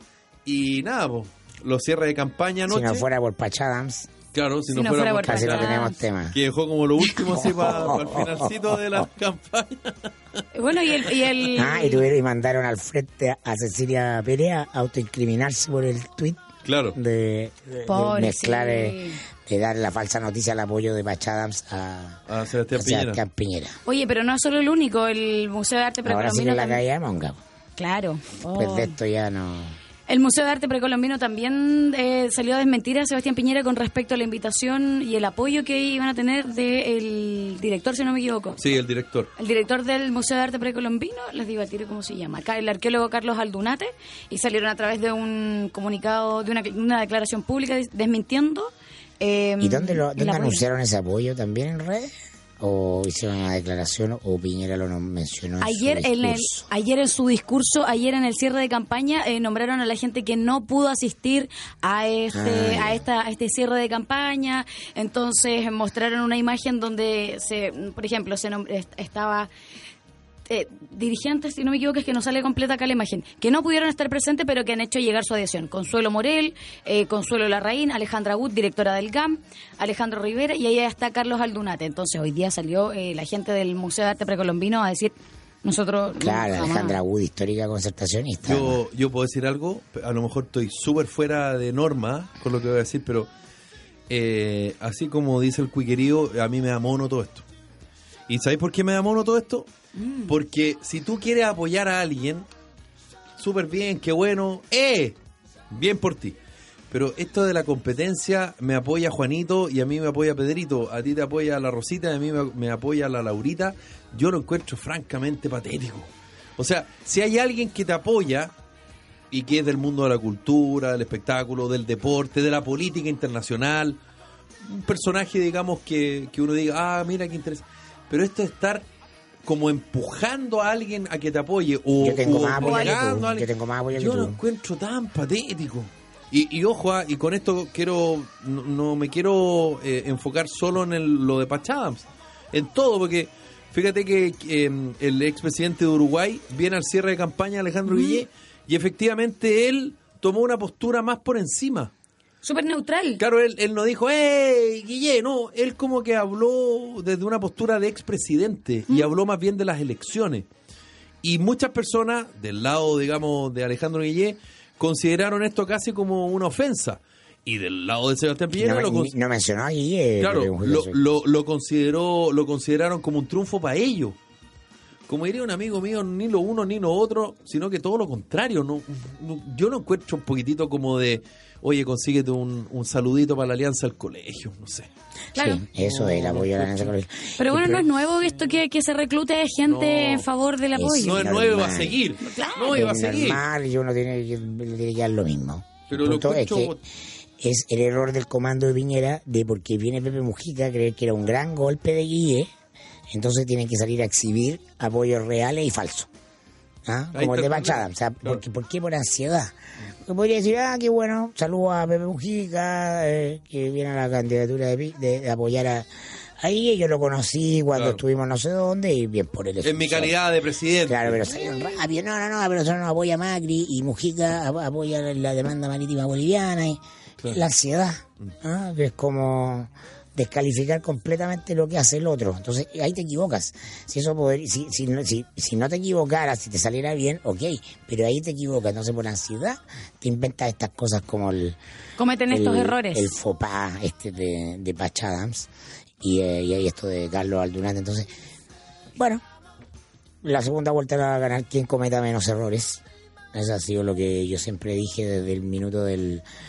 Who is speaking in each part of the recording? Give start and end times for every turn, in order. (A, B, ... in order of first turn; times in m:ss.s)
0:00.4-0:03.0 A
0:02.7-0:04.1 B
0:04.3-0:10.4 A
0:04.7-0:06.0 C
0:05.3-0:06.4 B
0:07.3-0:09.1 B
0:10.5-0:12.1 C
0:11.5-0:16.4 B
0:16.6-0:17.0 A
0:17.0-0:22.2 B
0:17.9-0:19.2 C
0:22.3-0:23.2 A
0:22.7-0:23.8 B
0:23.9-0:26.8 C
0:26.0-0:27.4 B
0:27.8-0:29.0 C
0:28.5-0:29.7 B
0:30.1-0:38.6 C
0:38.6-0:39.3 A
0:39.4-0:50.6 C
0:49.6-0:56.7 B
0:55.6-1:09.5 C
1:02.3-1:03.0 B
1:10.5-1:27.0 C
1:26.2-1:28.8 B
1:28.5-1:33.3 A
1:34.1-1:37.4 A
1:38.3-1:39.7 A
1:40.0-1:40.3 C
1:40.3-1:42.5 A
1:43.4-1:45.2 A
1:45.7-1:46.4 A
1:46.9-1:58.5 A
1:59.3-2:04.0 A
2:04.6-2:08.8 A
2:09.4-2:31.9 A
2:12.0-2:14.4 B
2:12.6-2:13.0 C
2:27.9-2:28.2 C
2:32.4-2:33.2 C
2:33.2-2:40.5 A
2:41.2-2:49.1 A
2:48.5-2:51.0 B
2:50.2-2:54.2 A
2:55.1-3:04.9 A
3:05.3-3:05.6 C
3:05.4-3:07.8 B
3:05.8-3:06.9 A
3:07.4-3:11.2 C
3:09.7-3:10.3 A
3:10.8-3:12.0 B
3:11.0-3:13.4 A
3:12.2-3:12.7 C
3:12.7-3:16.8 B
3:15.9-3:16.8 A
3:17.4-3:22.5 B
3:23.1-3:26.1 B
3:26.9-3:35.9 B
3:27.1-3:28.4 A
3:36.4-3:40.2 B
3:37.8-3:38.0 A
3:39.6-3:41.3 A
3:40.9-4:01.6 B
4:02.0-4:03.1 C
4:02.3-4:05.5 B
4:06.0-4:08.1 B
4:09.0-4:09.2 B
4:10.2-4:12.8 B
4:13.3-4:16.2 B